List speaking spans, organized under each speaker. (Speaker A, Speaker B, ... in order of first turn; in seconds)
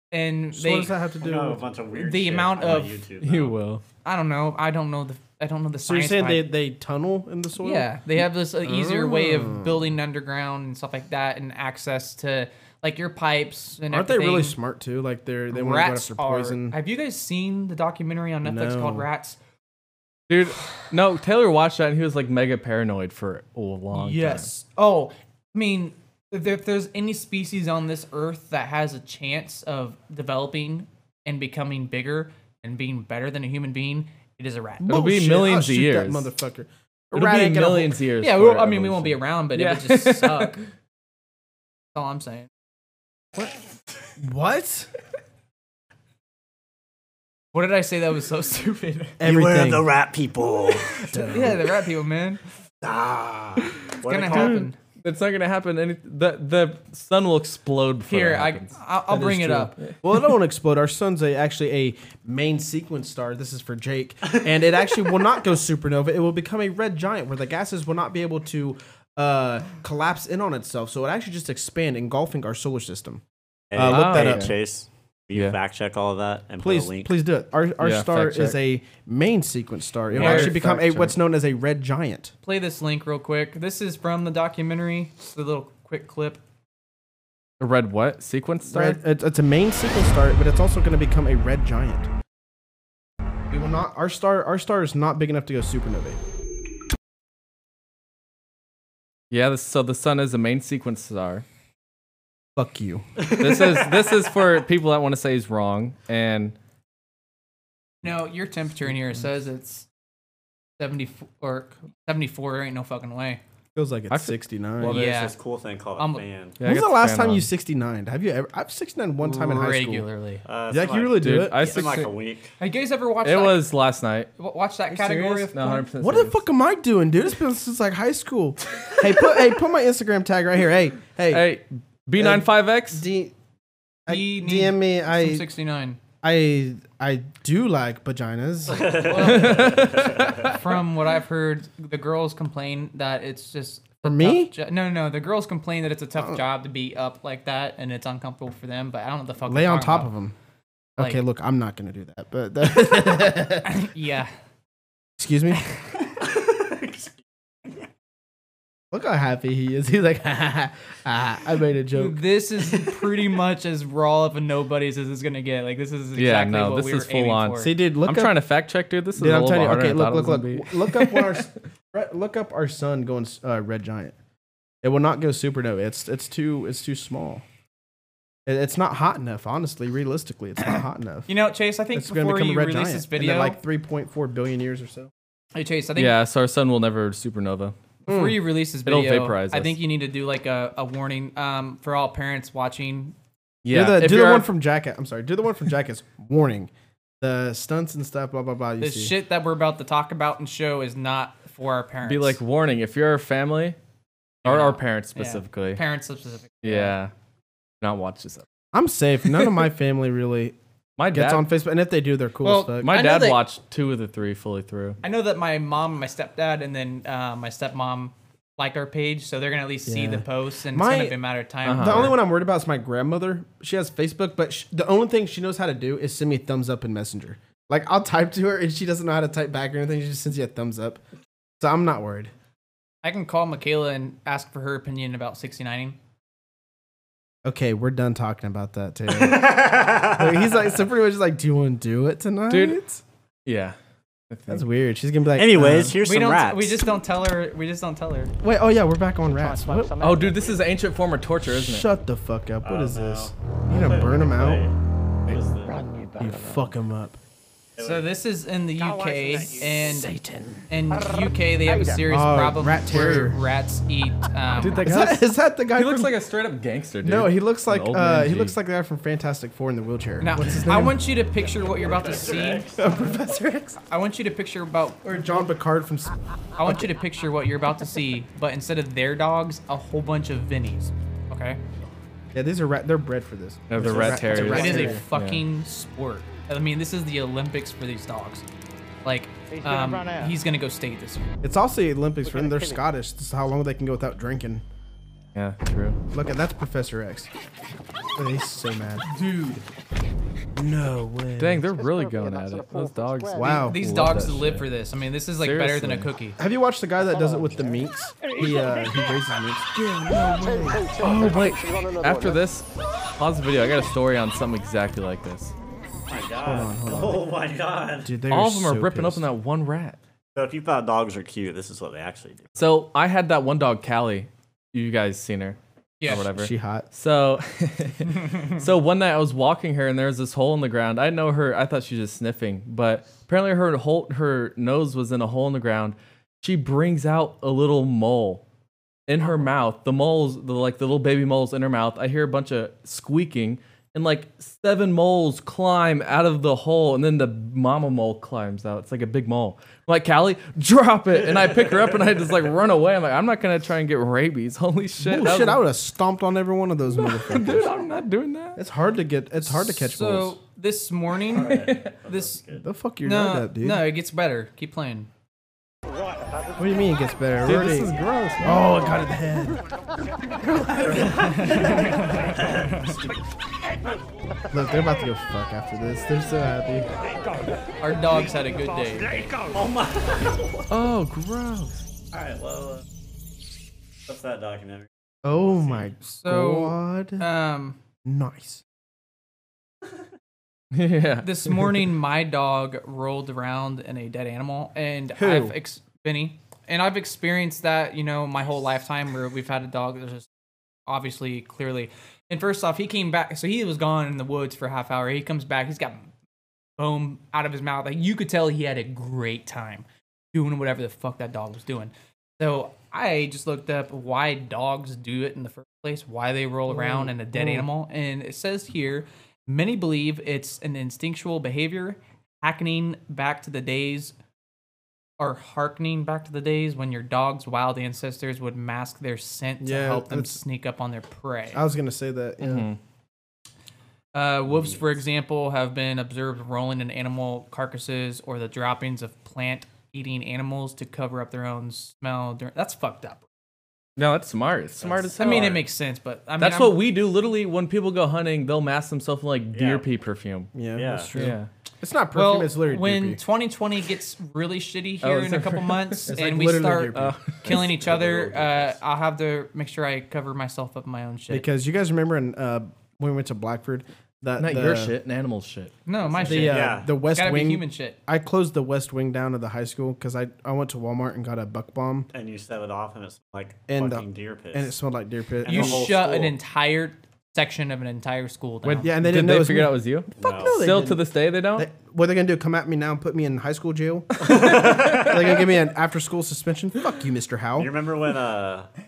Speaker A: 0.1-0.9, 1.9-2.9, 4.0-6.5, 7.6-14.6, 15.5-19.4, 23.9-34.9, 38.2-40.6, 41.9-42.5, 47.5-49.2, 51.3-52.4, 54.0-54.8, 58.1-59.7, 80.2-80.5, 82.4-86.4, 108.0-109.9, 110.8-113.4, 114.8-115.3, 116.0-116.2, 119.2-120.4, 122.6-123.7, 124.4-125.8, 134.1-136.0, 139.0-139.9, 140.4-150.1, 153.6-154.3, 155.7-156.0, 161.9-167.7, 181.3-183.6, 185.5-186.2, 188.1-193.1, 198.8-202.4, 204.4-206.9, 212.4-213.4, 215.0-222.2, 233.0-236.0, 246.0-248.3, 257.8-260.1, 260.7-264.8, 270.2-272.6, 273.9-275.4, 276.6-281.6, 283.8-288.4, 289.0-291.3, 299.1-299.6, 303.5-306.4, 326.0-326.2, 359.4-362.4, 363.0-365.1, 371.5-371.8, 377.8-379.4, 386.1-387.8, 391.2-400.3, 400.9-406.1, 406.8-424.1, 425.2-431.6, 434.1-443.2, 445.2-446.8, 452.1-461.4, 465.9-468.0, 475.4-478.9
Speaker B: 0.5-1.6, 5.8-9.9, 13.9-16.8, 18.4-19.1, 34.8-38.0, 44.2-44.9, 49.2-49.9, 51.0-51.6, 60.0-73.2, 73.7-74.5, 76.6-82.3, 88.7-92.1, 93.5-96.2, 102.5-103.0, 113.7-115.0, 116.6-120.1, 120.7-121.8, 124.9-131.5, 132.2-133.3, 134.1-135.5, 136.2-139.2, 144.0-144.5, 146.2-146.4, 149.5-150.3, 151.0-153.8, 155.2-155.6, 158.9-162.2, 167.6-168.4, 169.1-174.1, 174.8-177.4, 178.4-181.3, 181.9-185.1, 188.1-188.4, 193.7-199.1, 208.7-210.6, 211.1-212.9, 219.8-221.2, 221.7-231.0, 231.6-232.3, 237.4-243.0, 244.5-246.0, 248.4-250.1, 251.5-254.7, 256.2-257.2, 259.9-260.6, 262.0-263.4, 264.8-266.2, 267.0-271.0, 272.8-273.8, 275.0-276.9, 282.3-285.0, 291.4-294.6, 296.1-297.3, 298.1-299.1, 300.5-301.7, 303.3-303.8, 306.4-311.1, 316.4-317.2, 318.0-319.3, 326.2-326.9, 355.0-357.8, 358.6-360.4, 362.6-363.9, 366.6-369.6, 370.5-371.7, 374.5-376.9, 385.2-387.2, 388.0-388.6, 395.2-395.5, 416.7-417.7, 429.6-430.4, 431.5-432.7, 450.5-453.2, 456.1-457.5, 461.3-464.9, 466.2-472.1, 473.7-475.9, 478.8-487.7
Speaker C: 1.2-3.5, 49.2-51.2, 52.8-54.6, 73.7-77.1, 103.2-104.2, 114.9-116.6, 120.4-122.5, 138.7-140.6, 156.2-157.8, 239.1-240.7, 245.3-246.9, 252.6-254.7, 255.3-255.8, 257.8-258.1, 271.8-272.8, 316.1-318.1, 320.3-322.5, 361.3-362.6, 370.8-373.2, 379.5-380.6, 382.1-382.8, 384.1-385.9, 434.5-434.8, 444.8-445.6, 449.5-449.8, 450.7-451.1, 457.4-458.8, 466.3-466.9, 472.1-474.8, 475.4-476.3, 480.2-480.6, 484.2-485.4, 487.6-488.7
Speaker D: 3.2-3.8, 20.3-24.5, 34.8-36.3, 37.1-40.6, 54.2-60.0, 73.8-74.5, 77.8-78.6, 80.1-81.2, 87.6-89.0, 99.3-101.4, 103.4-106.6, 114.1-115.1, 116.6-117.5, 121.2-122.1, 123.2-124.3, 125.0-126.4, 131.3-133.1, 139.2-140.5, 166.2-171.4, 185.9-187.7, 188.8-189.7, 193.6-194.5, 202.0-203.8, 204.4-205.8, 206.6-207.1, 207.8-208.4, 211.0-211.5, 212.8-215.0, 221.6-222.2, 242.5-242.8, 243.4-243.8, 244.3-244.6, 250.0-251.8, 264.6-268.6, 283.7-285.4, 295.3-296.0, 301.4-304.6, 305.4-306.1, 311.0-315.5, 318.3-320.0, 322.6-338.4, 339.1-355.6, 356.9-358.6, 361.5-361.8, 367.4-368.8, 380.7-381.8, 390.7-391.9, 432.4-432.8, 444.0-445.6, 446.4-450.5, 451.1-451.5, 455.0-456.1, 456.9-457.6, 464.4-466.4, 478.6-481.7